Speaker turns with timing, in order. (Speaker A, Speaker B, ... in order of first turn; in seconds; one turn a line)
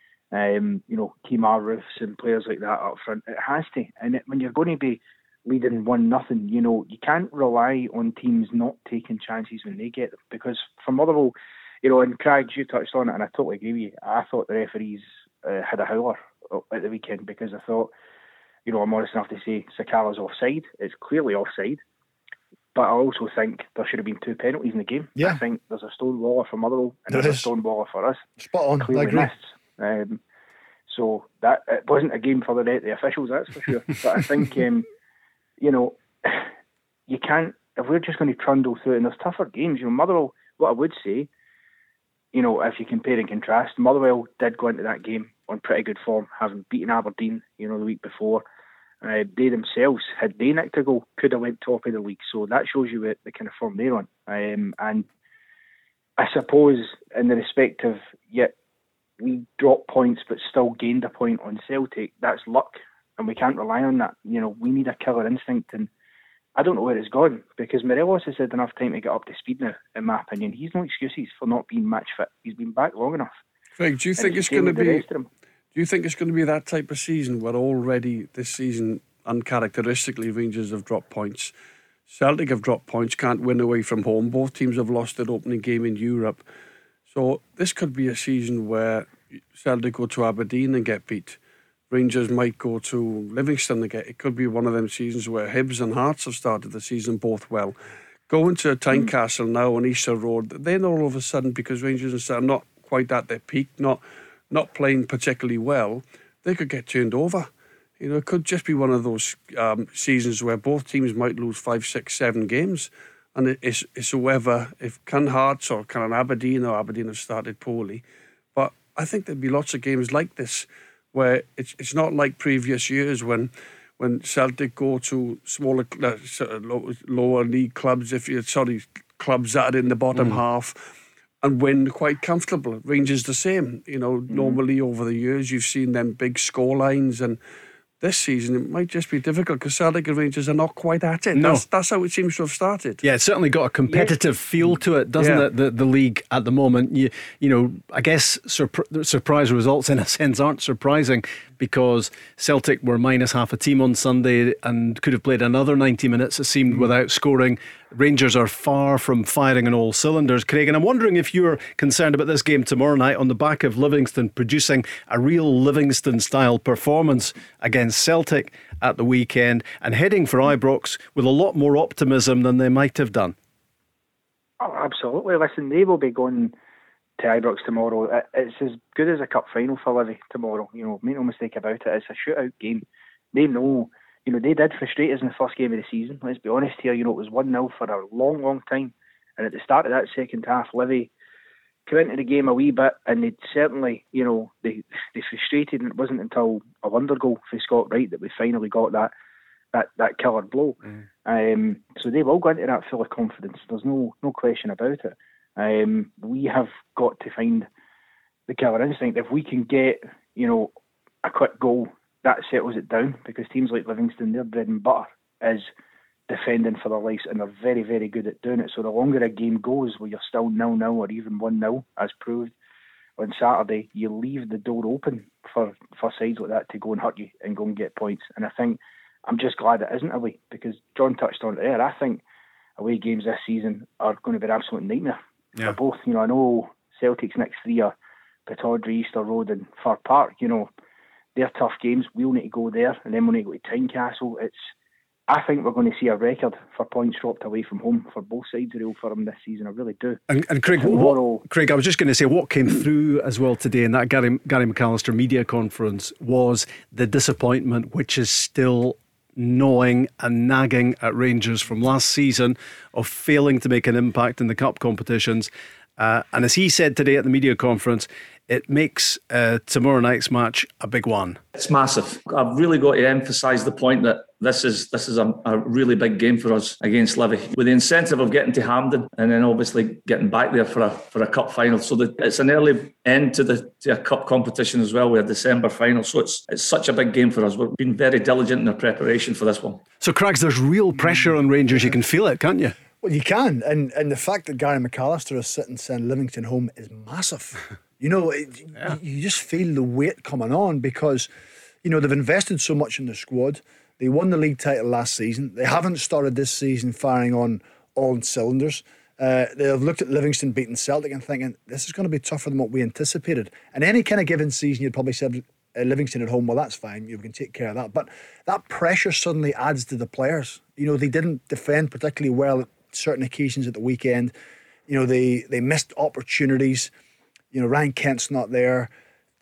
Speaker A: 0.3-17.9
Speaker A: 18.6-21.8
Speaker A: 22.7-28.3
Speaker B: 27.1-27.5
Speaker B: 28.4-29.3
Speaker A: 28.8-30.2
Speaker A: 30.9-34.9
Speaker A: 35.6-36.5
Speaker A: 37.1-41.3
Speaker A: 42.3-48.4
Speaker A: 49.0-55.1
Speaker A: 56.2-58.5
Speaker A: 59.2-65.9
Speaker A: 66.6-73.3
Speaker C: 73.8-75.0
Speaker A: 74.2-75.3
Speaker C: 75.8-81.5
Speaker C: 82.1-86.4
Speaker C: 87.1-91.4
Speaker C: 91.9-97.8
Speaker C: 98.3-107.5
Speaker C: 108.0-118.0
Speaker C: 118.5-130.9
Speaker C: 131.4-137.4
Speaker A: 134.3-134.6
Speaker C: 138.0-143.0
Speaker D: 141.3-141.6
Speaker D: 143.0-173.3
Speaker C: 145.2-145.5
Speaker A: 174.6-176.5
Speaker A: 177.2-191.1
Speaker A: 191.9-199.1
Speaker A: 199.7-207.7
Speaker A: 208.5-210.7
Speaker A: 211.2-215.7
Speaker A: 216.3-222.5
Speaker A: 223.2-232.2
Speaker A: 232.8-237.9
Speaker A: 238.5-240.7
Speaker A: 241.3-244.6
Speaker A: 245.3-250.2
Speaker D: 250.3-271.4
Speaker A: 250.7-251.4
Speaker E: 271.6-289.8
Speaker D: 290.0-292.8
Speaker B: 293.0-301.3
Speaker B: 301.8-324.3
Speaker B: 324.9-326.9
Speaker B: 327.5-328.9